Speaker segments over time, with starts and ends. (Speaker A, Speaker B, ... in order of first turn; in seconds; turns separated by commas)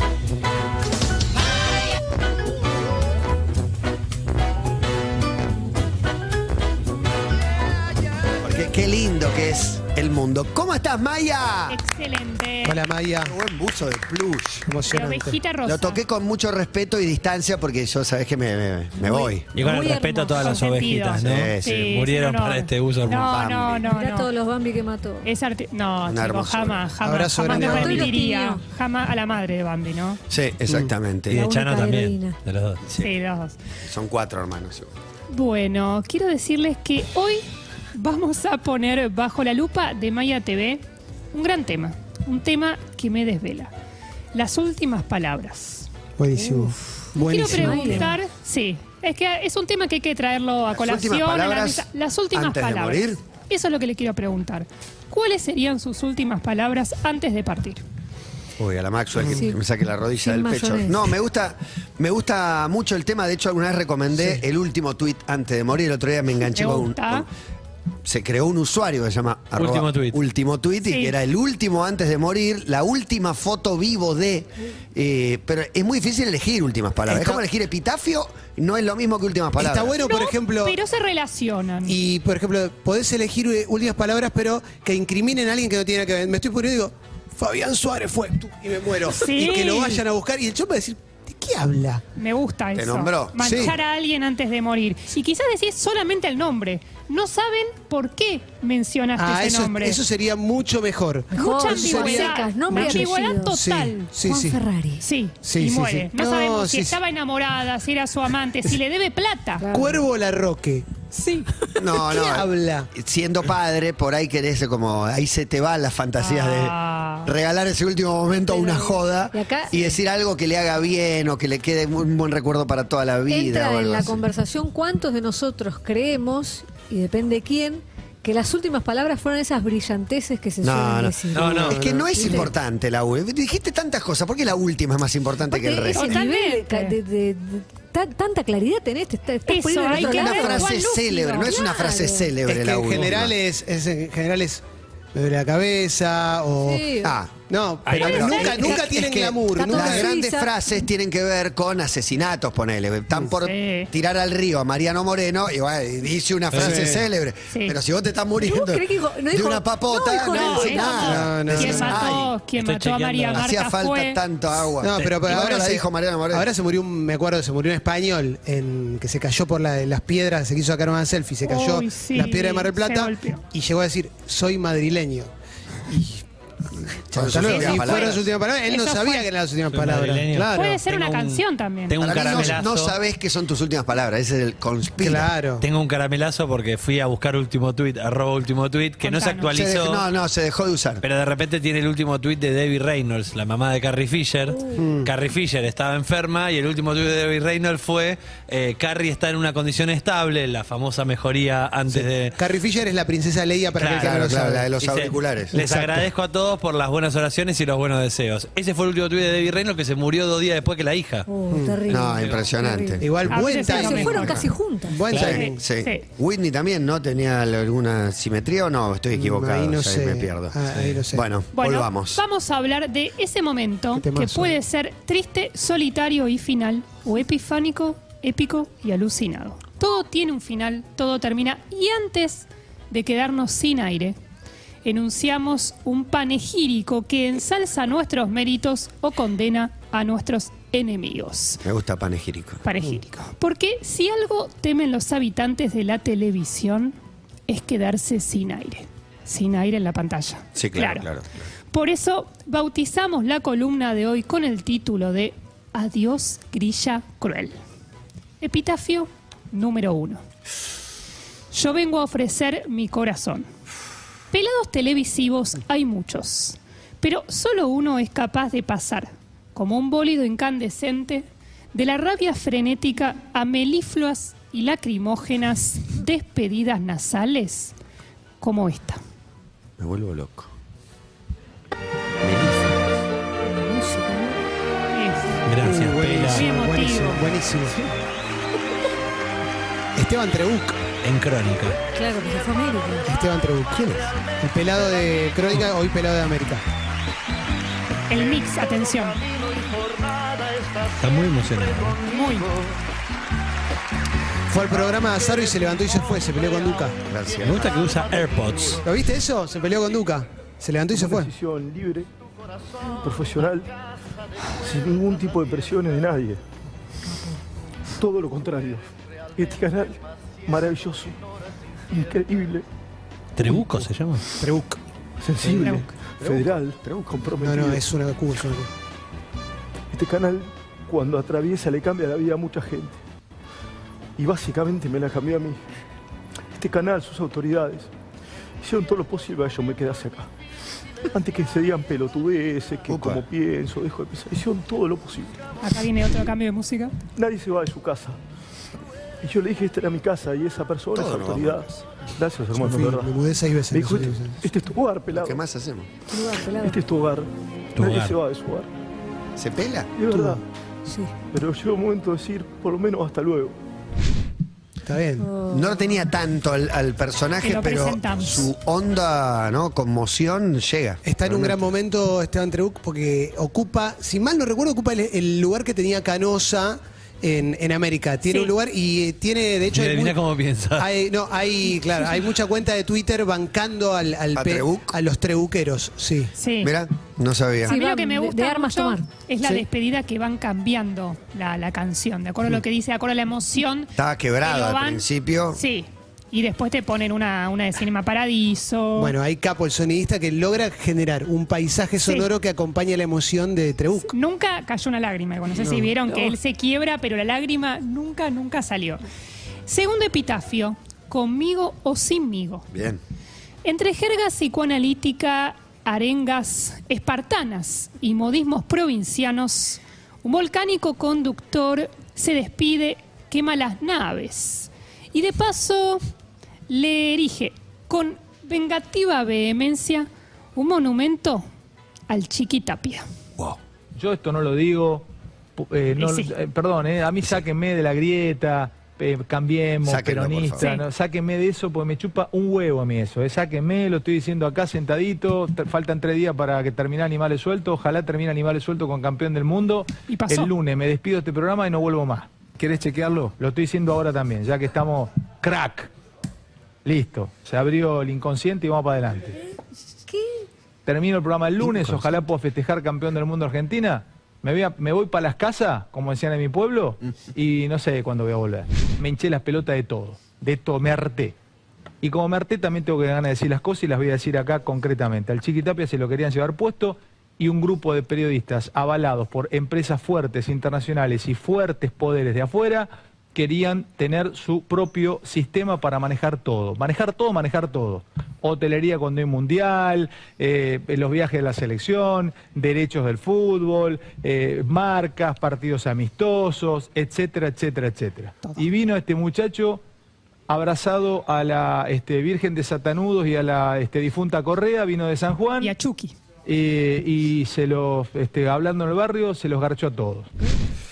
Speaker A: 8.4-11.8, Speaker B: 11.7-12.8, Speaker C: 12.6-13.3, Speaker A: 13.2-14.7, Speaker C: 14.6-15.4, Speaker B: 14.9-16.0, Speaker A: 15.7-19.5, Speaker B: 19.1-24.3, Speaker D: 19.1-19.3, Speaker E: 19.5-23.3, Speaker D: 19.9-20.6, Speaker A: 21.2-21.9, Speaker A: 23.1-23.9, Speaker D: 23.8-25.3, Speaker B: 25.2-30.2, Speaker A: 26.0-26.9, Speaker C: 27.0-28.2, Speaker D: 27.4-28.6, Speaker A: 30.3-31.4, Speaker E: 31.3-32.9, Speaker D: 31.3-32.4, Speaker B: 33.0-33.5, Speaker A: 33.8-34.9, Speaker B: 35.3-37.4, Speaker B: 37.9-43.7, Speaker B: 44.3-45.9, Speaker C: 46.2-48.1, Speaker D: 46.4-46.7, Speaker B: 47.1-57.8, Speaker D: 47.5-48.1, Speaker A: 50.7-53.2, Speaker A: 58.6-67.3, Speaker D: 59.3-59.6, Speaker D: 60.2-61.1, Speaker C: 64.1-64.4, Speaker B: 66.5-67.2, Speaker A: 68.0-79.9, Speaker E: 69.5-70.2, Speaker B: 70.8-71.2, Speaker C: 77.1-77.4, Speaker C: 79.6-80.8, Speaker B: 79.9-82.0, Speaker C: 81.9-92.0, Speaker B: 89.1-90.0, Speaker B: 92.2-100.0, Speaker A: 92.8-93.7, Speaker C: 93.4-93.8, Speaker C: 99.2-104.6, Speaker D: 101.3-103.5, Speaker B: 101.3-104.1, Speaker D: 104.2-105.0, Speaker B: 105.0-109.7, Speaker C: 105.4-107.0, Speaker D: 109.6-110.0, Speaker C: 109.7-110.9, Speaker B: 111.1-111.5, Speaker A: 111.8-124.2, Speaker C: 111.9-112.9, Speaker B: 116.2-117.4, Speaker D: 118.5-120.0, Speaker D: 123.3-132.5, Speaker A: 130.6-136.2, Speaker C: 131.5-132.5, Speaker D: 135.5-140.7, Speaker B: 135.9-137.0, Speaker B: 139.4-141.6, Speaker A: 139.9-143.3, Speaker D: 141.4-142.4, Speaker C: 142.4-144.6, Speaker C: 145.1-146.9, Speaker D: 146.6-147.2, Speaker A: 147.0-147.3, Speaker C: 147.4-150.1, Speaker A: 147.9-162.3, Speaker D: 148.0-150.8, Speaker B: 153.4-153.9, Speaker E: 156.5-157.0, Speaker C: 156.5-157.0, Speaker B: 157.5-157.8, Speaker D: 158.4-161.4, Speaker B: 160.3-164.2, Speaker C: 161.0-162.2, Speaker E: 162.6-163.4, Speaker A: 163.3-166.5, Speaker C: 164.5-175.3, Speaker B: 171.4-173.4, Speaker C: 175.9-176.2, Speaker C: 176.8-180.8, Speaker A: 177.1-178.2, Speaker B: 177.4-178.2, Speaker B: 178.7-179.3, Speaker E: 179.7-182.9, Speaker B: 180.5-182.0, Speaker A: 182.0-185.3, Speaker C: 185.0-185.7, Speaker E: 185.6-190.0, Speaker B: 189.0-189.6, Speaker A: 189.6-191.0, Speaker E: 191.0-202.3, Speaker A: 194.8-195.1, Speaker C: 194.8-195.1, Speaker C: 201.9-204.7, Speaker E: 203.8-204.2, Speaker A: 203.9-205.6, Speaker E: 204.8-211.3, Speaker C: 205.5-206.1, Speaker D: 211.3-213.1, Speaker C: 211.5-212.0, Speaker A: 211.9-213.1, Speaker E: 212.2-212.4, Speaker C: 213.0-215.6, Speaker B: 213.3-214.5, Speaker D: 213.7-215.2, Speaker A: 215.1-222.2, Speaker B: 215.1-216.1, Speaker C: 219.1-221.2, Speaker B: 221.5-234.2, Speaker C: 223.9-224.6, Speaker B: 234.8-241.6, Speaker A: 241.6-242.6, Speaker B: 242.6-247.0, Speaker B: 247.5-251.1, Speaker A: 250.6-251.4, Speaker B: 251.7-257.6, Speaker B: 258.4-260.2, Speaker B: 261.5-263.5, Speaker B: 264.3-277.7, Speaker B: 278.4-279.0, Speaker A: 279.8-280.5, Speaker A: 282.2-282.7, Speaker D: 283.4-284.4, Speaker B: 284.9-285.4, Speaker F: 285.5-286.4, Speaker C: 285.6-287.8, Speaker E: 285.6-286.4, Speaker B: 286.3-287.2, Speaker C: 289.9-290.8, Speaker E: 291.0-291.8, Speaker D: 291.9-293.1, Speaker C: 293.1-296.6, Speaker A: 293.8-294.0, Speaker B: 298.1-299.4, Speaker E: 301.0-302.0, Speaker B: 302.0-302.5, Speaker C: 304.5-307.0, Speaker A: 307.1-307.7, Speaker E: 307.4-308.8, Speaker C: 308.8-311.3, Speaker G: 310.9-312.1, Speaker G: 312.9-313.7, Speaker G: 314.6-316.4, Speaker G: 318.0-318.9, Speaker G: 319.4-321.2, Speaker G: 321.9-322.6, Speaker E: 323.4-324.2, Speaker C: 323.5-323.9, Speaker C: 324.4-324.8, Speaker G: 325.2-327.9, Speaker B: 325.6-325.9, Speaker A: 326.2-327.3, Speaker C: 327.4-328.7, Speaker G: 329.9-333.0, Speaker G: 334.2-335.6, Speaker G: 336.6-337.9, Speaker G: 338.6-340.3, Speaker G: 341.1-345.4, Speaker A: 342.9-343.2, Speaker B: 345.6-347.0, Speaker G: 347.2-348.2, Speaker G: 349.2-355.4, Speaker A: 350.9-351.8, Speaker C: 352.5-354.4, Speaker A: 355.2-355.9, Speaker D: 356.1-356.8, Speaker G: 356.4-358.7, Speaker E: 357.8-358.2, Speaker A: 359.4-359.9, Speaker G: 359.9-360.4, Speaker G: 361.3-363.6, Speaker C: 364.9-365.3, Speaker D: 365.2-365.9, Speaker A: 365.5-371.7, Speaker B: 367.4-368.5, Speaker C: 371.0-380.2, Speaker B: 378.3-378.5, Speaker E: 380.0-380.9, Speaker C: 380.8-386.3, Speaker A: 384.3-384.9, Speaker B: 386.4-386.7, Speaker A: 386.6-387.7, Speaker B: 387.7-393.9, Speaker D: 387.7-389.1, Speaker A: 394.0-395.6, Speaker B: 394.4-399.1, Speaker C: 399.0-404.1, Speaker B: 404.1-409.0, Speaker C: 405.6-405.9, Speaker B: 409.7-412.7, Speaker A: 412.7-413.0, Speaker B: 413.6-426.0, Speaker B: 426.7-431.5, Speaker B: 432.1-433.0, Speaker F: 434.0-455.9, Speaker B: 436.0-436.3, Speaker A: 439.8-440.7, Speaker B: 440.6-440.8, Speaker B: 450.1-450.5, Speaker F: 456.8-459.4, Speaker F: 460.9-471.4, Speaker A: 461.6-461.9, Speaker F: 472.0-499.8, Speaker F: 500.5-505.7, Speaker B: 505.6-506.1, Speaker F: 506.5-510.3